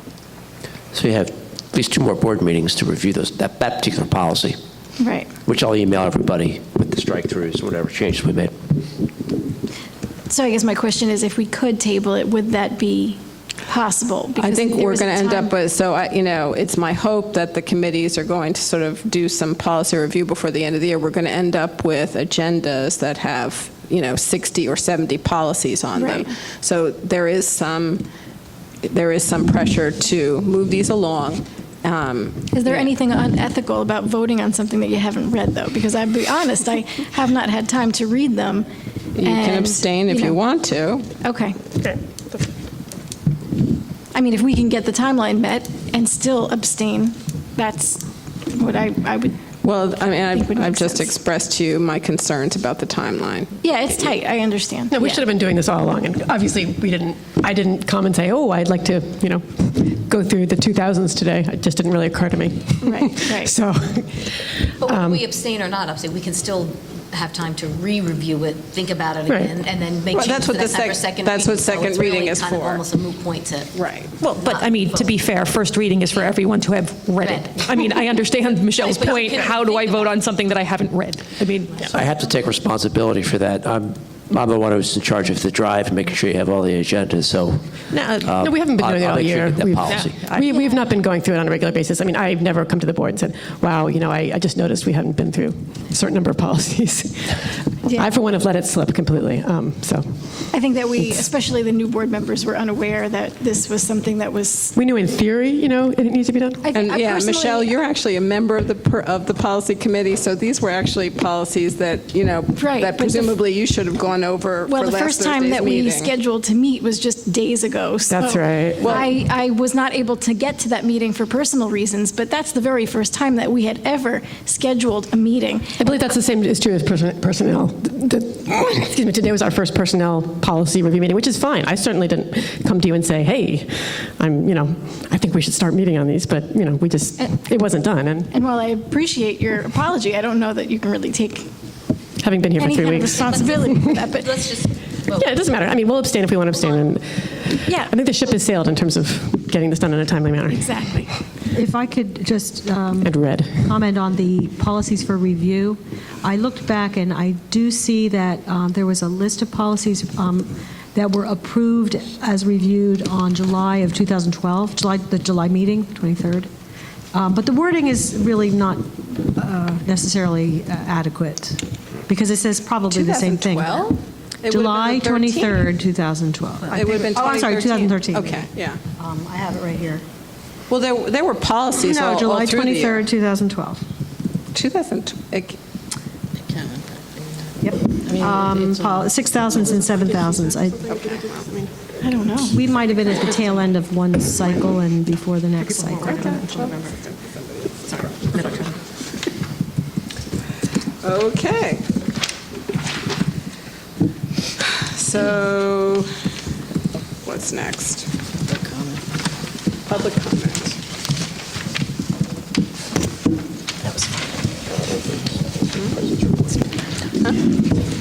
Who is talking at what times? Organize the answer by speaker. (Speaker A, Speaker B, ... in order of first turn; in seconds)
Speaker A: 0.9-4.6, 5.5-8.5, 81.9-90.2
Speaker B: 5.0-5.3, 10.3-15.6, 25.9-26.3, 32.5-38.7, 39.2-40.4, 41.2-41.6, 44.1-49.4, 50.0-51.2, 53.6-55.2, 62.8-63.5, 100.5-104.8, 106.6-107.8, 112.6-113.3, 114.7-125.7, 138.3-141.5, 142.6-144.3, 147.7-147.9, 150.5-151.1, 192.0-192.6
Speaker C: 14.4-28.0, 28.8-32.9, 39.2-41.1, 49.6-53.7, 70.1-72.9, 73.7-74.1, 106.7-116.1, 118.8-119.1, 172.9-175.8, 176.7-178.8, 180.7-183.1, 184.5-185.6, 190.9-191.4, 195.9-198.5, 201.0-201.8, 204.6-206.1, 207.2-208.1, 209.9-210.8, 215.8-216.0
Speaker D: 54.9-65.3, 69.3-69.6, 87.9-100.5, 104.8-106.6, 118.1-119.0, 125.8-138.3, 142.2-151.1, 153.0-153.7, 189.9-191.6, 195.8-196.2
Speaker E: 64.8-73.7, 74.4-75.2, 77.2-77.9, 78.8-80.3, 188.1-189.0
Speaker F: 74.2-82.1, 89.8-90.5
Speaker G: 151.5-166.5, 167.1-173.9, 174.5-180.0, 181.8-183.8, 187.6-190.8, 192.5-196.8